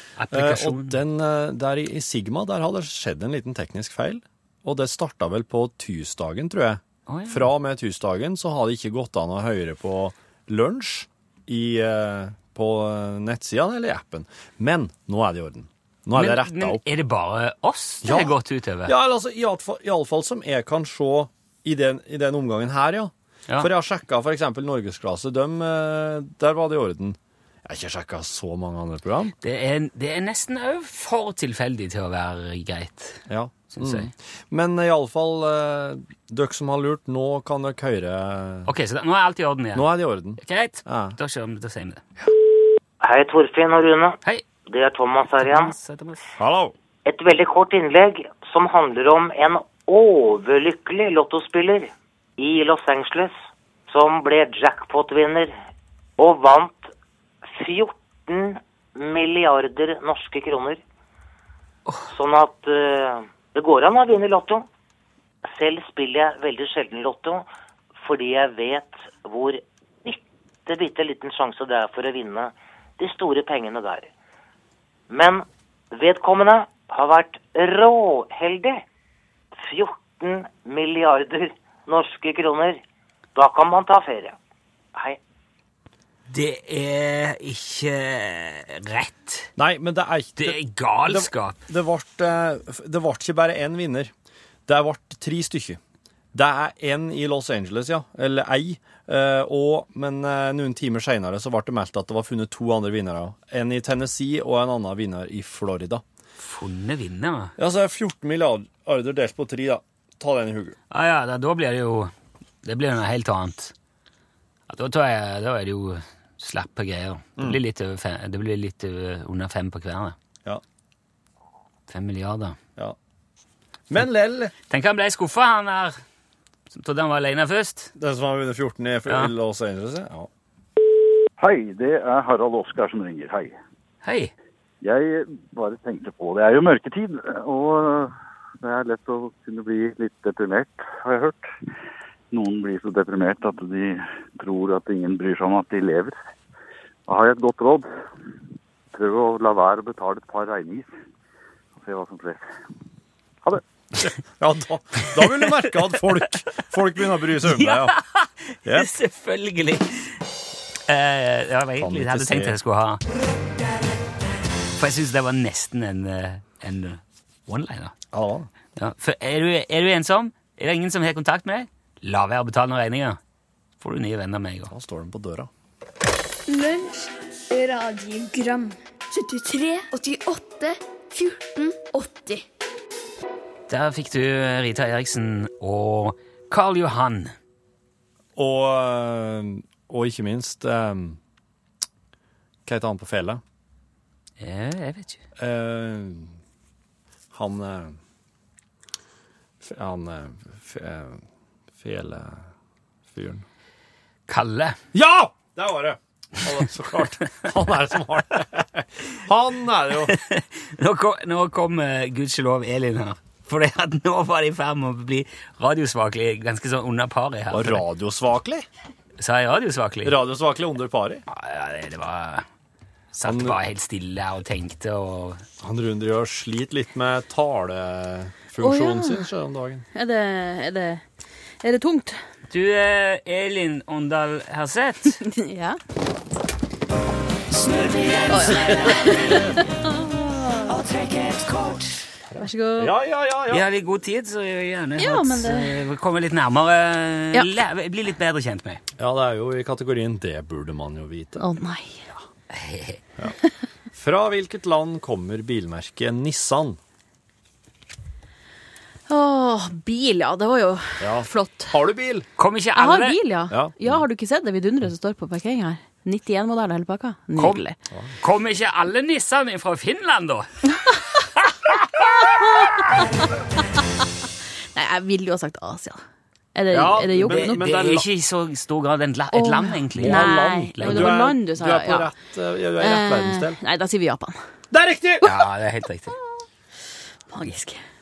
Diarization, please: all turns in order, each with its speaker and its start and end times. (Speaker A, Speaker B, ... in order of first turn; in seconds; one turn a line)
Speaker A: 0.2-1.0
Speaker B: 0.3-16.8
Speaker A: 7.1-7.5
Speaker A: 16.1-18.9
Speaker B: 18.0-18.3
Speaker B: 18.9-29.3
Speaker A: 29.4-34.1
Speaker B: 33.3-38.7
Speaker A: 38.6-42.0
Speaker B: 39.7-41.2
Speaker C: 43.0-45.7
Speaker A: 45.4-46.3
Speaker B: 46.4-46.7
Speaker C: 47.0-53.3
Speaker C: 53.9-55.5
Speaker C: 56.2-56.9
Speaker C: 57.5-60.8
Speaker C: 62.1-64.7
Speaker C: 65.5-67.5
Speaker C: 68.0-74.1
Speaker C: 75.1-78.8
Speaker C: 79.5-82.8
Speaker C: 83.3-84.4
Speaker C: 84.9-85.2
Speaker A: 86.3-89.5
Speaker B: 89.6-94.1
Speaker A: 90.4-91.6
Speaker B: 94.7-95.8
Speaker B: 96.3-106.0
Speaker A: 106.4-107.5
Speaker B: 107.6-110.8
Speaker A: 110.9-112.1
Speaker A: 112.6-113.7
Speaker A: 114.7-120.1
Speaker A: 121.9-122.6
Speaker B: 123.9-124.5
Speaker A: 124.7-126.0
Speaker A: 126.7-127.9
Speaker B: 128.0-130.3
Speaker D: 131.4-133.5
Speaker A: 134.0-134.3
Speaker D: 134.8-141.5
Speaker D: 142.3-146.2
Speaker D: 147.1-147.9
Speaker D: 148.9-150.9
Speaker D: 151.8-152.4
Speaker B: 154.0-158.0
Speaker A: 157.4-160.2
Speaker A: 160.9-163.0
Speaker B: 161.8-162.6
Speaker A: 164.8-167.9
Speaker B: 168.1-168.5
Speaker A: 168.8-173.2
Speaker A: 173.8-174.7
Speaker B: 174.7-175.5
Speaker E: 176.5-182.4
Speaker A: 183.7-187.3
Speaker B: 188.3-191.2
Speaker B: 192.6-193.4
Speaker A: 194.4-195.2
Speaker B: 195.4-196.3
Speaker B: 197.3-198.0
Speaker B: 199.6-201.2
Speaker B: 201.8-202.5
Speaker B: 203.1-203.4
Speaker A: 204.3-204.8
Speaker B: 204.9-210.2
Speaker A: 210.1-217.8
Speaker B: 217.5-218.7
Speaker A: 219.2-220.2
Speaker B: 220.0-221.2
Speaker A: 221.3-222.4
Speaker A: 223.1-225.4
Speaker B: 223.2-223.6
Speaker B: 225.6-229.8
Speaker F: 228.6-229.3
Speaker F: 229.9-231.0
Speaker F: 231.6-232.2
Speaker A: 232.5-235.2
Speaker F: 235.2-235.8
Speaker A: 238.0-239.2
Speaker F: 238.3-240.9
Speaker A: 241.1-241.8
Speaker B: 242.3-243.6
Speaker F: 242.3-242.9
Speaker A: 243.5-248.8
Speaker F: 245.0-245.8
Speaker B: 249.0-251.5
Speaker F: 251.4-252.0
Speaker A: 252.5-253.0
Speaker B: 253.9-256.8
Speaker F: 259.1-261.7
Speaker B: 261.0-262.3
Speaker A: 262.4-263.2
Speaker F: 262.7-267.8
Speaker B: 263.5-264.0
Speaker A: 267.3-267.6
Speaker A: 268.2-270.5
Speaker F: 272.4-273.0
Speaker F: 274.7-276.0
Speaker F: 276.5-277.7
Speaker B: 276.7-278.1
Speaker A: 277.2-281.2
Speaker F: 279.3-282.1
Speaker B: 279.9-283.6
Speaker F: 282.8-284.4
Speaker B: 284.7-285.3
Speaker A: 285.2-286.1
Speaker F: 287.3-287.8